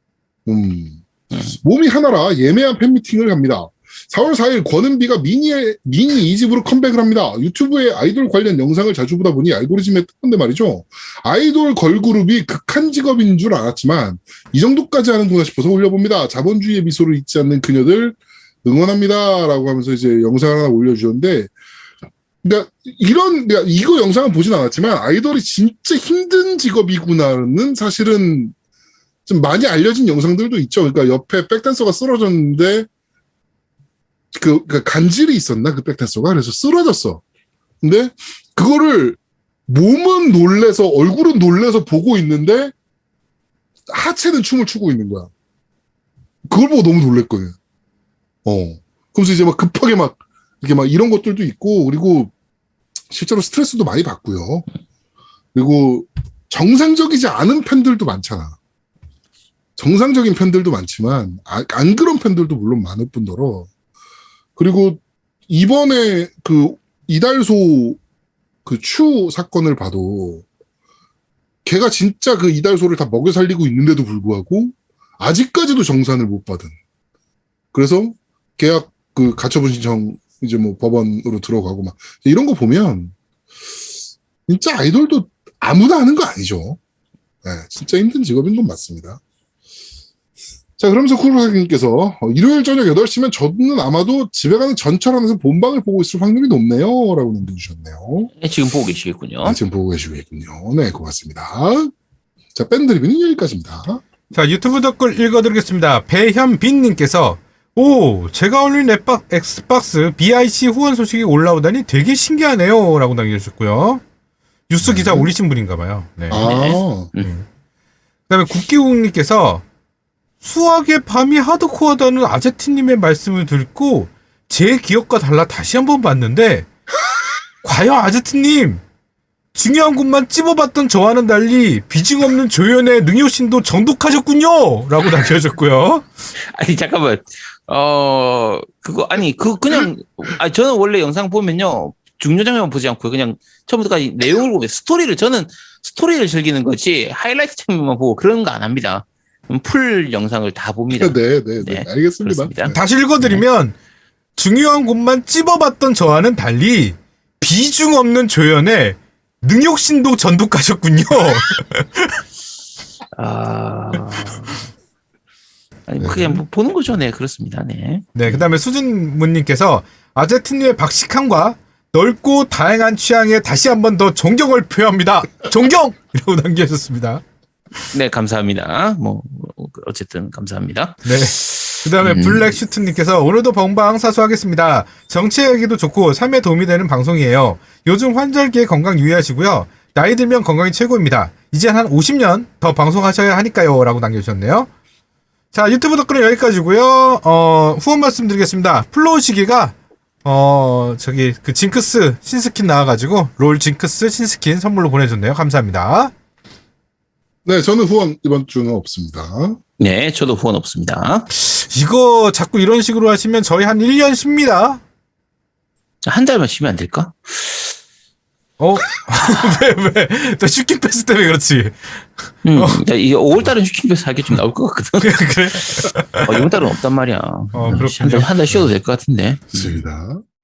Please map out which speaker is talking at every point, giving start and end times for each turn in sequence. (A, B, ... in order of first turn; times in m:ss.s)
0:00.5-0:21.5 A
0:22.4-0:28.5 A
0:29.3-0:32.9 A
0:34.4-0:37.2 A
0:37.8-0:42.7 A
0:43.9-0:45.3 A
0:46.5-0:47.6 A
0:48.5-0:52.3 A
0:53.1-0:54.7 A
0:55.5-0:58.6 A
0:59.8-1:03.7 A
1:04.6-1:08.0 A
1:08.6-1:10.4 A
1:11.6-1:16.7 A
1:17.7-1:23.1 A
1:24.5-1:26.8 A
1:27.4-1:29.2 A
1:30.8-1:38.3 A
1:38.4-1:39.6 B
1:39.4-1:41.9 A
1:42.6-1:44.0 A
1:44.3-1:54.0 C
1:54.7-1:57.4 C
1:54.8-1:55.3 A
1:56.3-1:57.1 A
1:56.3-1:57.3 B
1:58.3-1:59.6 C
2:00.4-2:06.7 C
2:07.6-2:08.8 C
2:09.6-2:16.1 C
2:16.4-2:33.4 B
2:30.9-2:32.6 A
2:32.6-2:33.7 C
2:34.4-2:42.2 C
2:43.2-2:44.6 B
2:45.9-2:48.5 B
2:48.2-2:57.2 C
2:57.9-3:02.6 B
3:01.0-3:14.7 C
3:15.5-3:26.1 C
3:27.4-3:29.6 A
3:29.8-3:31.3 B
3:31.3-3:34.8 C
3:36.0-3:37.8 B
3:38.6-3:42.8 C
3:42.4-3:49.8 B
3:45.0-3:46.5 C
3:47.5-3:48.7 C
3:49.5-3:50.2 A